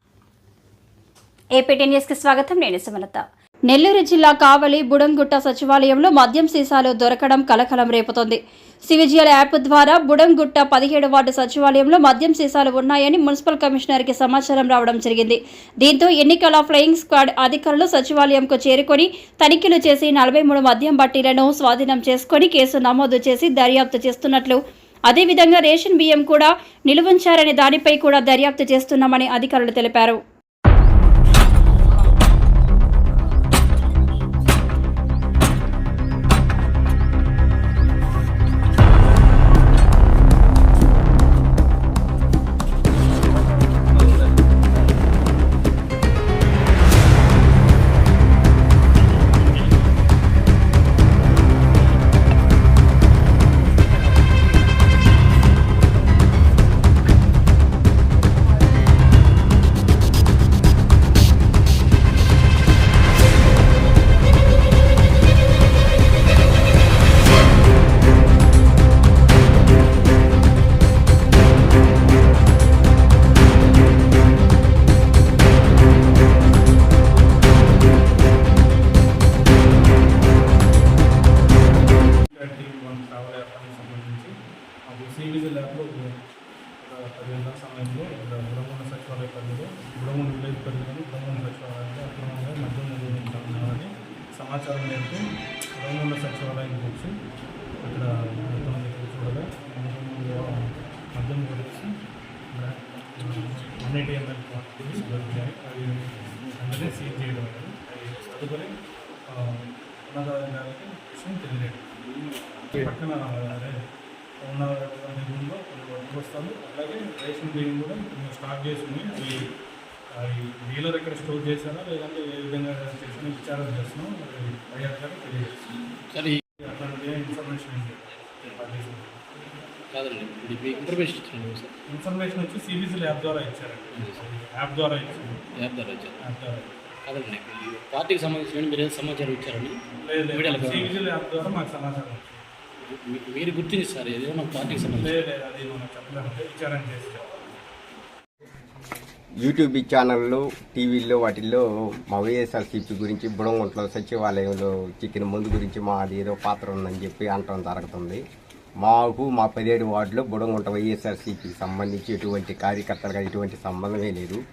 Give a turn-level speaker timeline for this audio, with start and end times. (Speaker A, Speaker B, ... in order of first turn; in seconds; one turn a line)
Speaker A: 1.6-30.2
Speaker B: 82.2-84.3
Speaker B: 84.9-86.2
Speaker B: 86.8-95.2
Speaker B: 95.8-97.1
Speaker B: 97.8-101.9
Speaker B: 102.5-108.7
Speaker B: 109.3-111.9
Speaker B: 112.7-113.8
Speaker B: 114.4-119.5
Speaker B: 120.1-125.5
Speaker C: 126.1-126.4
Speaker B: 126.6-129.2
Speaker C: 129.9-131.7
Speaker B: 131.9-135.4
Speaker C: 133.9-134.2
Speaker C: 135.6-136.2
Speaker B: 136.2-136.7
Speaker C: 137.1-139.8
Speaker B: 140.0-142.4
Speaker C: 140.3-140.9
Speaker C: 142.8-145.2
Speaker B: 144.9-147.3
Speaker D: 149.4-158.2
Speaker D: 158.8-164.4